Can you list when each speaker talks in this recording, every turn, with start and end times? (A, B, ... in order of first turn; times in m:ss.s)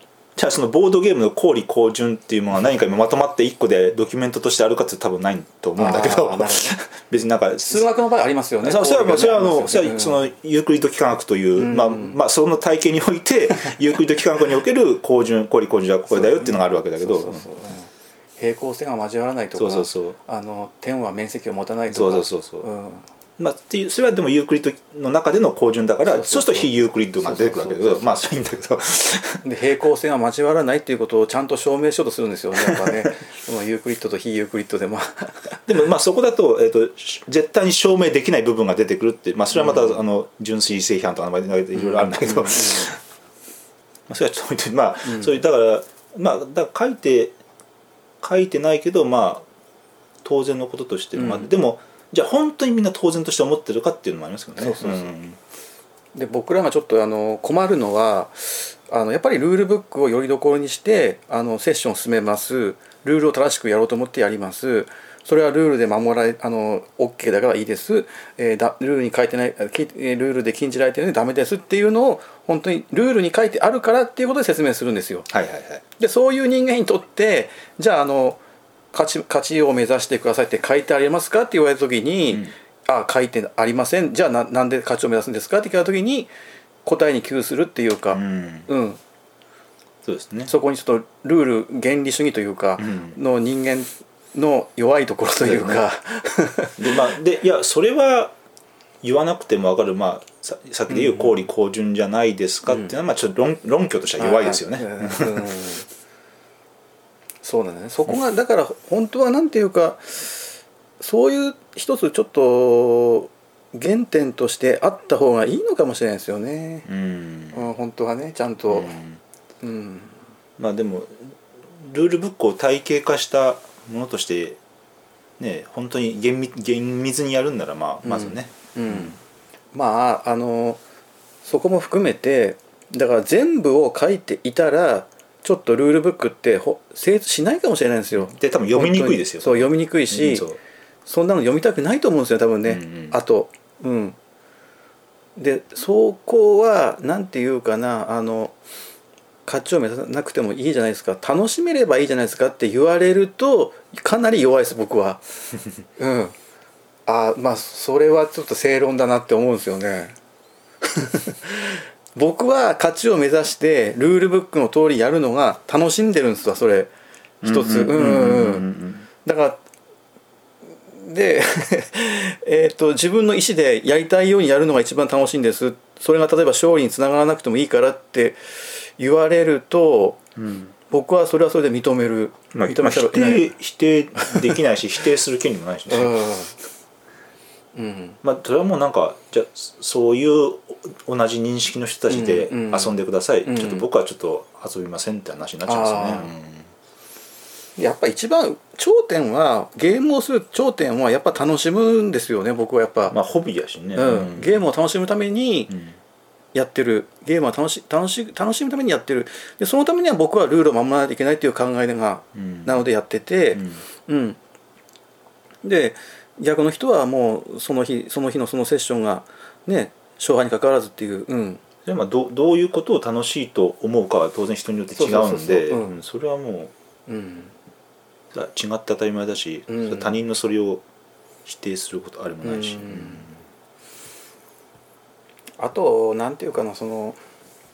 0:00.4-0:07.9 A
0:05.8-0:06.7 B
0:07.7-0:10.2 B
0:08.6-0:17.5 A
0:11.6-0:12.2 B
0:16.1-0:23.0 B
0:19.5-0:20.2 A
0:21.9-0:22.7 A
0:23.4-0:29.4 A
0:26.0-0:28.2 B
0:29.4-0:35.6 B
0:35.7-0:43.0 A
0:39.6-0:39.9 B
0:41.8-0:42.9 B
0:44.1-0:47.4 A
0:48.2-0:49.4 A
0:50.2-0:55.4 A
0:51.2-0:51.5 B
0:54.6-0:55.1 B
0:56.1-1:15.3 B
1:15.3-1:15.8 A
1:16.0-1:18.4 B
1:18.9-1:26.3 B
1:26.8-1:29.0 B
1:28.1-1:28.7 A
1:30.0-1:30.5 A
1:30.5-1:37.0 B
1:32.8-1:33.2 A
1:35.4-1:35.8 A
1:36.8-1:38.3 A
1:39.0-1:45.5 A
1:40.9-1:41.3 B
1:44.2-1:45.8 B
1:47.4-1:50.5 B
1:51.0-1:56.9 B
1:56.8-1:57.7 A
1:57.5-1:58.9 B
1:58.7-1:59.2 A
1:59.6-2:00.2 B
2:00.6-2:04.6 A
2:05.4-2:09.2 A
2:08.0-2:09.2 B
2:09.7-2:10.8 B
2:11.4-2:20.5 B
2:18.1-2:20.6 A
2:21.0-2:24.2 B
2:22.6-2:23.2 A
2:25.4-2:28.5 B
2:29.4-2:35.2 B
2:36.0-2:36.3 B
2:37.1-2:40.1 B
2:40.8-2:46.9 B
2:47.4-2:49.1 A
2:47.4-2:48.7 B
2:49.2-2:49.6 B
2:50.9-2:58.4 B
2:59.0-3:00.2 B
3:00.4-3:00.7 A
3:00.9-3:03.5 B
3:02.5-3:06.2 A
3:05.9-3:06.5 B
3:07.7-3:08.2 B
3:08.2-3:16.6 A
3:12.1-3:12.9 B
3:13.4-3:13.8 B
3:15.6-3:16.3 B
3:17.8-3:23.2 B
3:23.1-3:24.6 A
3:23.9-3:25.8 B
3:26.5-3:34.4 B
3:32.3-3:32.8 A
3:33.5-3:33.8 A
3:35.6-3:41.6 B
3:41.8-3:46.7 A
3:44.9-3:46.0 B
3:47.1-3:47.5 B
3:48.3-3:50.8 A
3:49.7-3:50.1 B
3:51.4-3:53.3 A
3:52.4-3:53.2 B
3:55.6-3:57.2 B